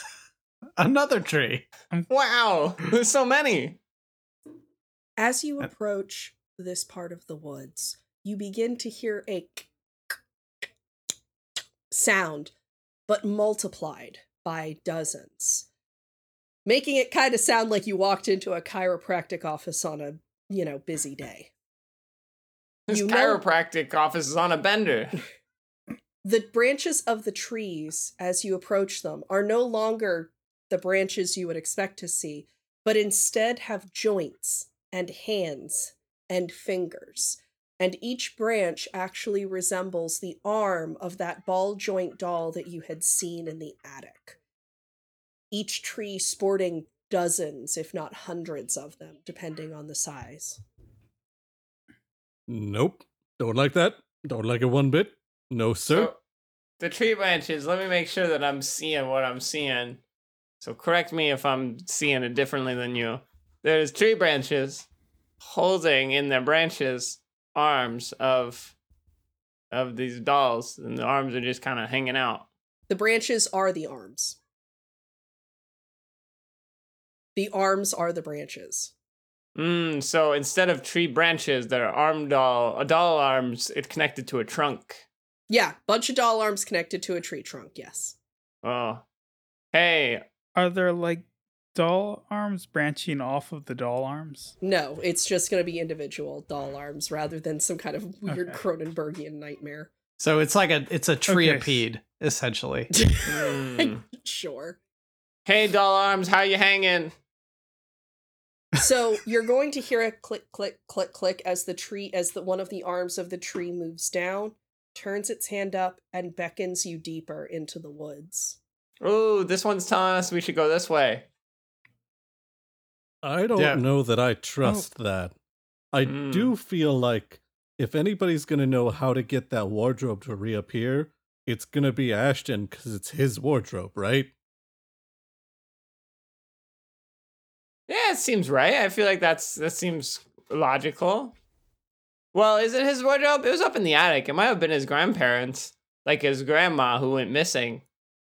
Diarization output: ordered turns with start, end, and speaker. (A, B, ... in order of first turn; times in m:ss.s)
0:00.8-0:01.6 A
0:02.1-0:03.8 B
0:05.2-0:09.7 C
0:11.9-0:12.5 C
0:13.1-0:15.7 C
0:16.7-0:21.5 C
0:22.9-0:25.2 B
0:22.9-0:23.4 C
0:26.2-0:44.4 C
0:45.5-0:50.6 C
0:52.5-0:56.1 D
0:55.9-0:56.2 B
0:56.8-1:00.0 B
1:00.6-1:04.9 B
1:05.4-1:08.8 B
1:09.7-1:12.5 B
1:12.9-1:14.4 C
1:17.4-1:18.9 C
1:19.6-1:25.1 B
1:25.5-1:28.2 C
1:28.6-1:29.0 B
1:29.7-1:30.3 B
1:30.6-1:34.6 E
1:34.6-1:39.9 C
1:38.3-1:38.6 E
1:40.2-1:42.9 A
1:41.3-1:41.8 E
1:42.9-1:44.8 C
1:43.3-1:44.0 B
1:45.5-1:47.1 B
1:48.8-1:58.6 C
1:59.0-2:01.3 B
2:03.2-2:05.4 D
2:03.6-2:03.8 A
2:05.9-2:14.3 D
2:06.1-2:06.5 B
2:17.9-2:21.4 B
2:22.3-2:27.8 B